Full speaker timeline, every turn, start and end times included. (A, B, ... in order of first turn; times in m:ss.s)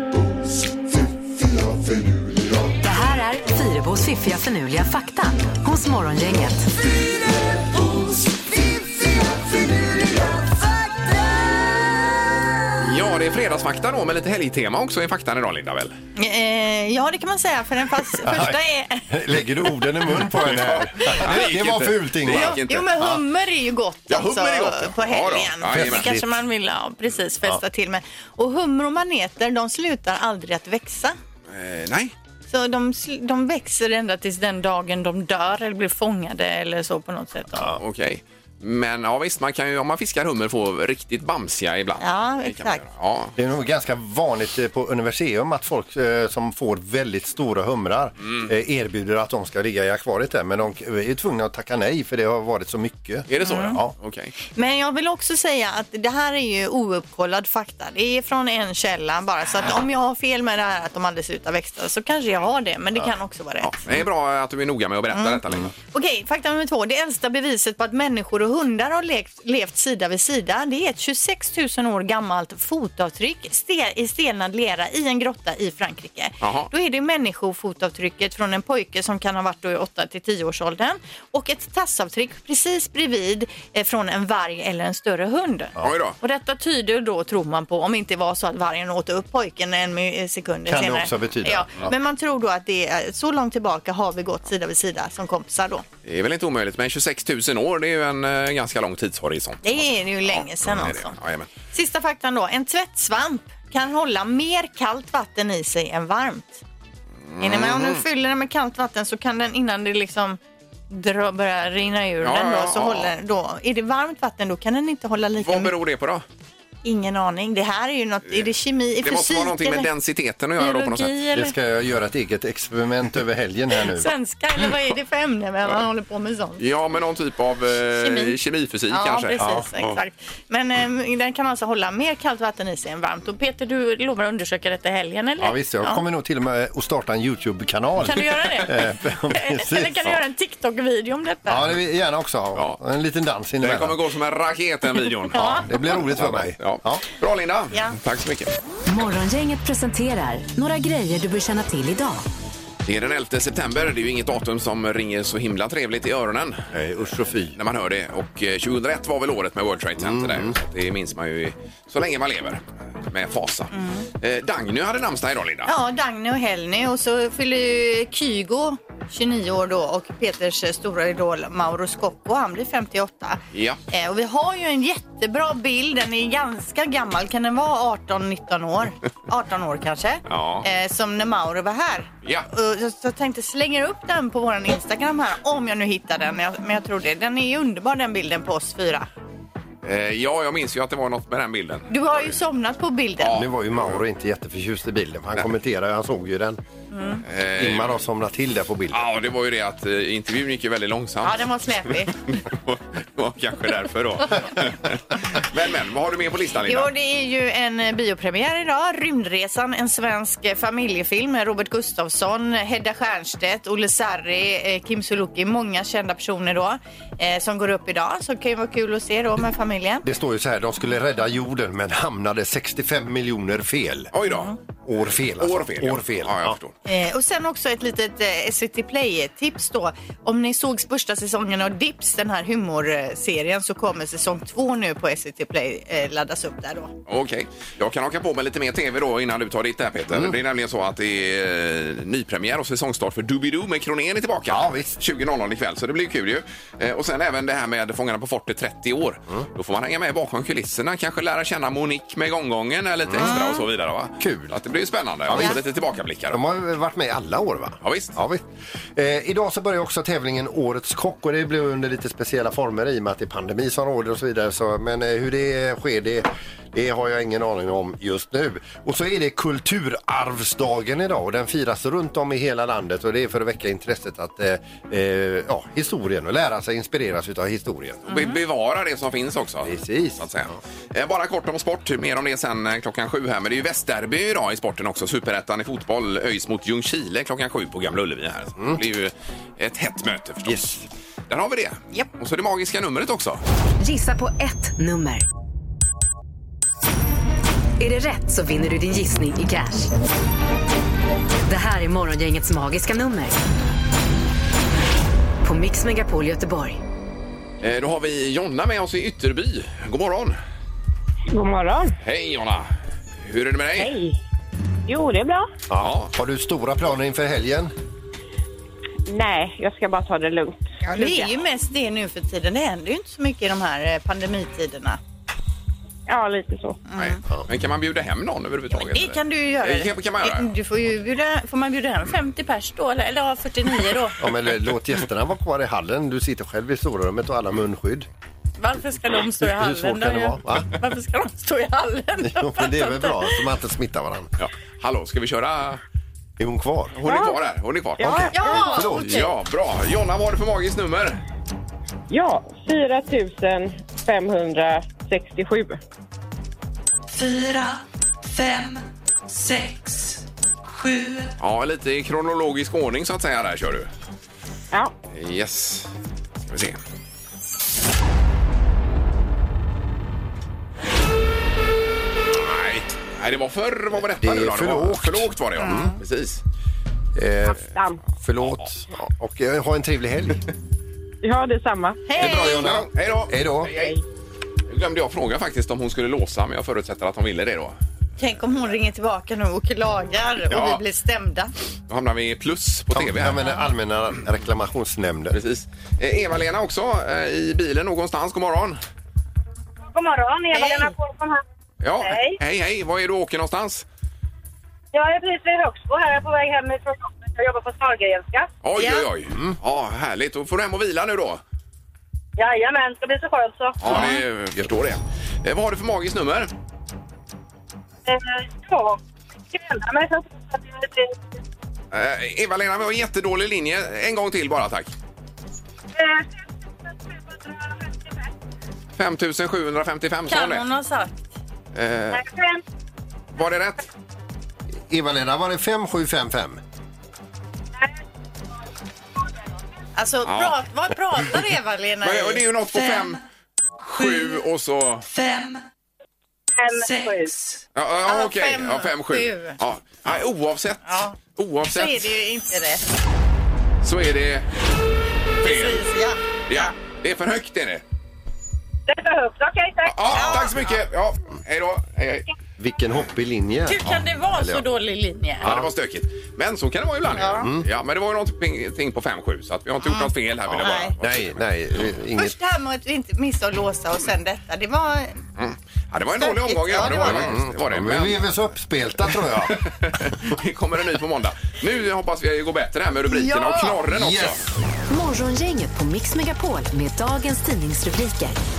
0:02.8-0:06.7 A
0:12.8-0:16.0 B
0:16.2-0:19.1 C
0:18.2-0:22.6 D
0:20.3-0:23.2 B
0:22.3-0:31.1 C
0:24.1-0:26.1 B
0:25.7-0:26.4 D
0:31.5-0:32.1 B
0:32.5-0:37.7 C
0:37.5-0:37.8 D
0:37.6-0:43.3 B
0:42.0-0:42.8 C
0:43.4-0:53.9 D
0:48.2-0:48.5 B
0:53.3-0:54.3 B
0:53.4-0:53.8 C
0:54.5-1:03.7 C
1:03.6-1:05.7 B
1:05.1-1:05.4 C
1:05.9-1:35.8 C
1:16.4-1:16.7 B
1:25.8-1:26.2 B
1:30.7-1:31.9 D
1:36.0-1:41.5 B
1:39.6-1:41.1 C
1:41.7-1:46.6 C
1:47.3-1:48.0 B
1:47.4-1:50.4 C
1:50.9-1:55.7 C
1:52.2-1:53.1 B
1:55.4-1:56.2 B
1:56.8-1:59.9 C
1:59.0-2:01.2 B
2:00.6-2:01.5 C
2:01.3-2:04.1 D
2:03.8-2:06.6 C
2:06.6-2:10.0 B
2:07.9-2:08.3 C
2:08.9-2:16.0 C
2:15.4-2:19.9 D
2:18.0-2:21.7 C
2:21.5-2:24.0 D
2:23.6-2:28.5 B
2:25.3-2:25.6 C
2:25.6-2:27.0 D
2:28.9-2:32.2 A
2:32.8-2:36.6 B
2:36.7-2:37.6 D
2:37.5-2:45.7 B
2:40.0-2:40.5 D
2:43.7-2:44.0 C
2:45.6-3:09.1 C
2:53.5-2:53.8 B
3:00.3-3:00.6 B
3:09.8-3:12.3 B
3:11.9-3:13.4 C
3:13.2-3:14.0 B
3:13.3-3:16.6 D
3:16.9-3:17.2 C
3:17.2-3:18.0 B
3:17.6-3:19.0 D
3:18.9-3:21.4 B
3:21.2-3:22.2 C
3:22.1-3:26.9 B
3:26.6-3:40.0 C
3:40.0-3:44.1 D
3:44.1-3:44.5 B
3:44.2-3:44.5 C
3:44.8-3:46.6 D
3:45.1-3:46.7 B
3:46.8-3:56.9 C
3:57.1-4:16.4 B
4:00.1-4:00.3 D
4:04.5-4:05.0 D
4:13.1-4:13.4 D
4:13.2-4:13.6 C
4:14.2-4:14.6 D
4:15.3-4:15.6 D
4:16.3-4:38.1 D
4:17.8-4:18.1 B
4:38.1-4:38.4 C
4:38.1-4:50.8 B
4:39.6-4:40.5 D
4:50.4-4:50.8 D
4:51.3-4:53.4 B
4:53.8-4:55.2 A
4:57.8-4:59.9 A
5:01.4-5:03.4 A
5:05.4-5:06.8 A
5:07.6-5:10.4 B
5:11.3-5:11.9 E
5:12.0-5:12.7 B
5:13.2-5:13.9 B
5:13.8-5:14.2 E
5:14.9-5:15.5 E
5:15.7-5:17.7 D
5:15.8-5:16.1 B
5:19.0-5:21.3 E
5:20.9-5:25.0 C
5:26.1-5:26.8 E
5:26.9-5:27.2 C
5:27.0-5:30.5 B
5:28.7-5:34.2 C
5:34.2-5:38.1 D
5:38.6-5:43.4 C
5:39.4-5:40.7 D
5:42.2-5:44.3 D
5:44.4-5:45.8 B
5:46.4-5:47.0 D
5:47.0-5:51.2 B
5:47.0-5:47.4 E
5:48.0-5:48.7 E
5:48.0-5:49.1 D
5:48.3-5:49.3 C
5:52.1-5:55.8 E
5:57.2-5:57.6 F
5:58.4-5:58.8 F
5:59.3-6:00.1 F
6:00.8-6:01.2 F
6:01.4-6:03.9 B
6:05.1-6:05.9 B
6:06.5-6:06.8 B
6:12.5-6:12.8 D
6:13.2-6:16.4 B
6:14.1-6:16.0 D
6:15.6-6:15.9 C
6:17.1-6:17.6 D
6:17.6-6:18.0 E
6:18.2-6:20.4 D
6:18.4-6:18.7 B
6:21.2-6:22.0 E
6:22.1-6:22.7 C
6:22.2-6:23.7 D
6:22.2-6:23.9 B
6:23.8-6:24.0 E
6:24.7-6:27.8 B
6:28.2-6:31.5 C
6:30.5-6:30.8 B
6:31.9-6:33.4 B
6:32.9-6:35.4 D
6:35.3-6:38.8 B
6:39.9-6:41.4 G
6:40.5-6:40.9 C
6:41.8-6:43.8 B
6:42.0-6:42.4 G
6:44.9-6:48.5 G
6:48.6-6:51.4 B
6:48.7-6:49.1 C
6:52.4-6:54.0 G
6:53.8-6:56.5 B
6:53.9-6:54.2 C
6:58.1-6:59.0 G
6:59.5-7:01.2 G
7:01.9-7:04.9 B
7:05.9-7:08.3 G
7:09.0-7:10.6 B
7:10.3-7:11.2 C
7:11.7-7:12.2 B
7:12.1-7:12.6 G
7:13.3-7:13.8 B
7:14.9-7:16.6 D
7:20.0-7:22.4 C
7:20.2-7:20.6 B
7:22.0-7:23.2 B
7:23.8-7:25.1 B
7:25.1-7:25.6 F
7:26.6-7:27.3 G
7:26.8-7:27.6 F
7:27.7-7:32.1 B
7:28.1-7:29.6 C
7:30.9-7:31.2 C
7:31.7-7:32.8 C
7:33.8-7:34.5 B
7:35.4-7:35.8 B
7:35.4-7:36.7 C
7:36.5-7:37.8 B
7:38.9-7:40.3 G
7:39.8-7:42.3 B
7:40.1-7:40.6 C
7:42.6-7:44.6 D
7:43.6-7:45.5 C
7:45.4-7:45.7 D
7:45.4-7:51.8 B
7:47.1-7:47.5 C
7:47.2-7:47.7 D
7:49.8-7:50.9 C
7:50.5-7:52.3 D
7:52.2-7:55.2 C
7:55.4-7:58.3 B
7:56.1-7:57.3 C
7:56.8-7:59.6 D
7:59.4-8:04.4 B
8:03.3-8:03.7 C
8:03.9-8:04.4 D
8:04.9-8:08.4 A